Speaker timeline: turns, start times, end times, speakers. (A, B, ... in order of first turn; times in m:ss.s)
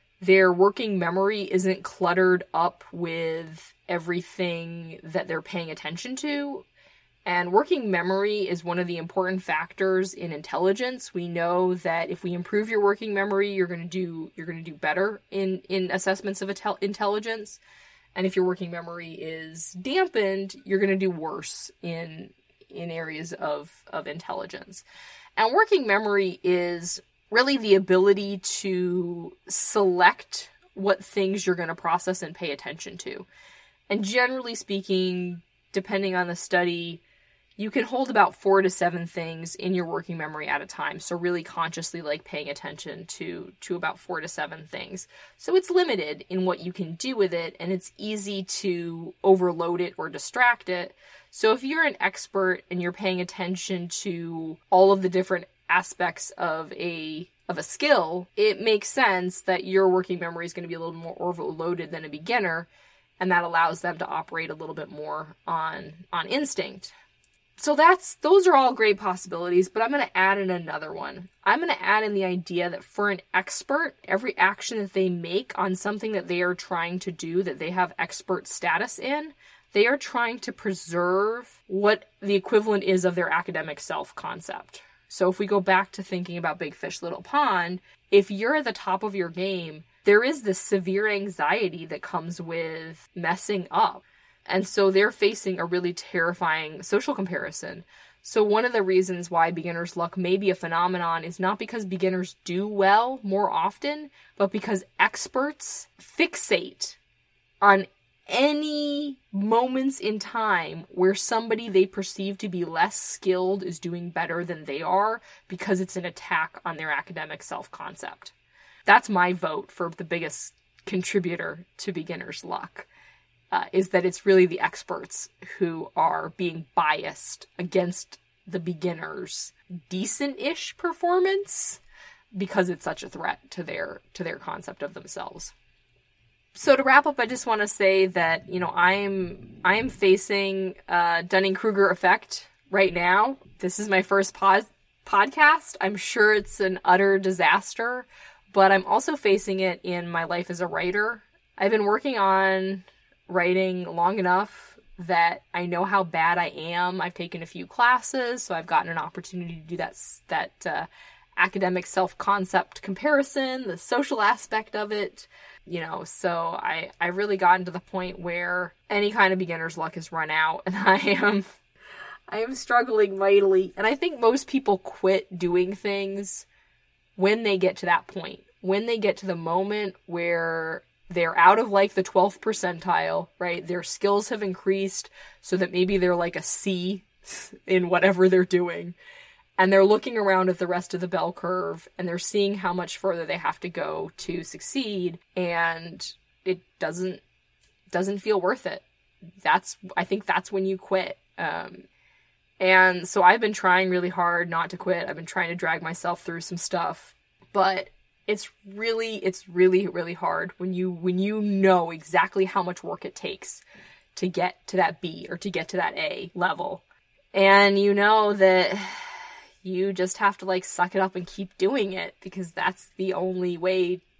0:00.2-0:06.7 A
0:07.2-0:17.6 A
0:18.2-0:24.8 A
0:25.4-0:33.3 A
0:33.9-0:37.0 A
0:37.6-1:02.7 A
1:03.2-1:06.9 A
1:07.6-1:47.0 A
1:47.6-1:58.3 A
1:58.9-2:02.9 A
2:03.5-2:11.8 A
2:12.4-2:15.5 A
2:16.6-2:51.4 A
2:52.3-2:56.5 A
2:57.2-3:09.0 A
3:09.6-3:17.2 A
3:17.9-3:18.8 A
3:19.4-3:21.9 A
3:22.6-3:33.6 A
3:34.2-3:36.8 A
3:37.3-3:44.0 A